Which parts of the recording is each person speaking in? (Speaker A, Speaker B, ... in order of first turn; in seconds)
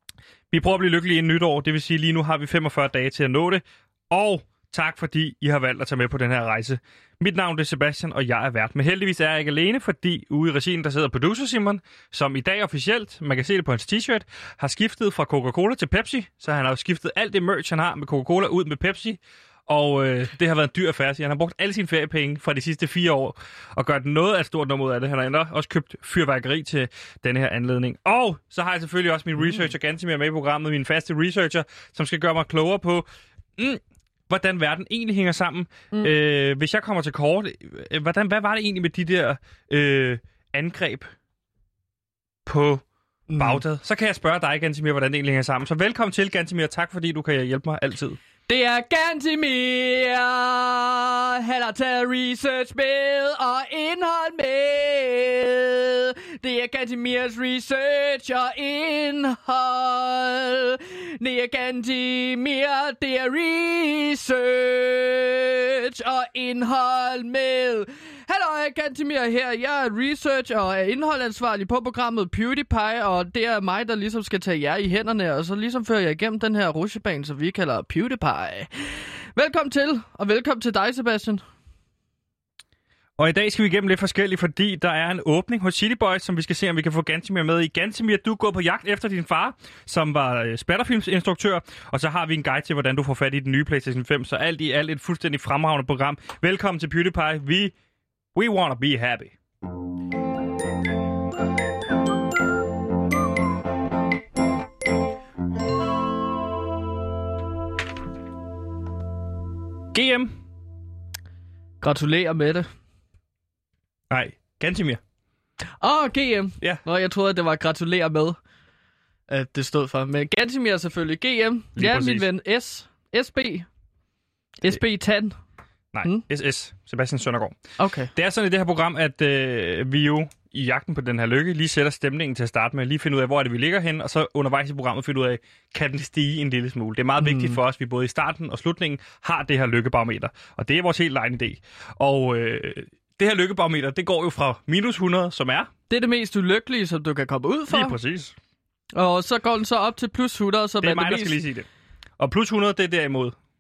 Speaker A: 0.5-33.0, 33.6-41.1, 42.5-42.8, 43.4-48.2, 83.2-97.7, 98.3-99.3, 109.9-110.3, 114.1-115.0, 121.8-122.3, 125.9-127.6, 128.2-145.7, 147.7-148.3, 150.8-151.7, 152.2-153.3
Speaker B: 43.3-43.6, 48.5-78.7, 79.4-81.4, 111.8-112.7, 115.8-118.4, 119.3-123.7, 124.6-125.3, 127.8-128.1, 137.2-137.6, 145.9-148.0, 148.9-151.4